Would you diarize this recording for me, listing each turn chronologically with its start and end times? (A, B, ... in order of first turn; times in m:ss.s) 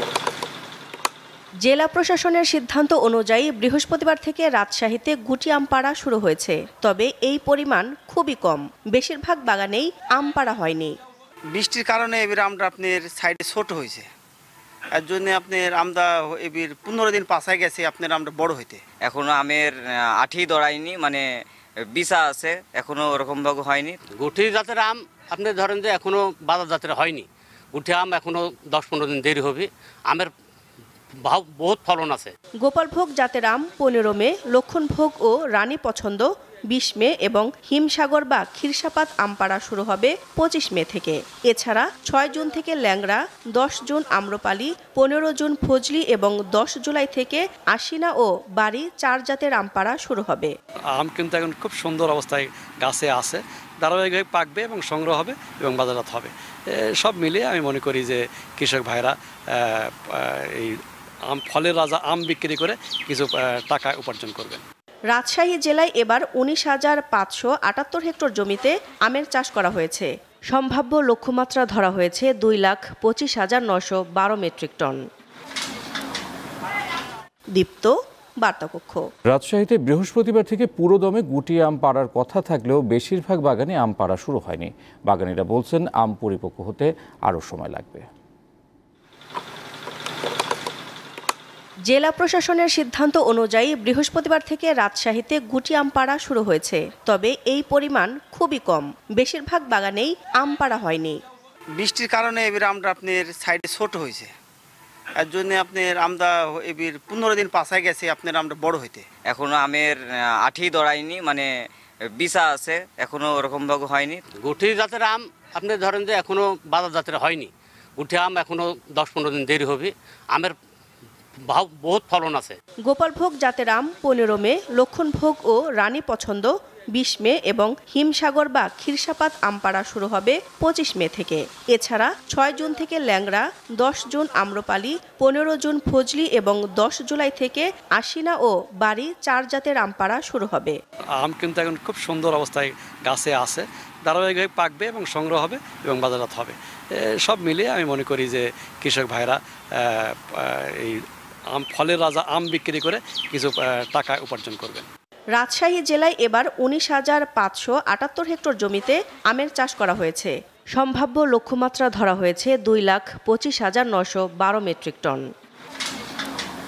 0:01.6-0:10.9 A
0:11.5-0:14.0 B
0:15.0-0:18.8 B
0:19.0-0:21.2 C
0:21.9-0:24.0 C
0:24.2-0:30.3 D
0:31.2-0:32.3 D
0:32.6-0:50.5 A
0:50.9-1:04.6 E
1:05.1-1:15.0 A
1:17.6-1:19.0 A
1:19.3-1:28.0 F
1:31.9-1:41.2 A
1:41.8-1:44.3 B
1:45.2-1:49.0 B
1:49.3-1:51.5 C
1:52.1-1:54.2 C
1:54.4-2:00.5 D
2:01.5-2:02.5 D
2:02.8-2:20.8 A
2:21.2-2:34.9 E
2:35.4-2:45.2 A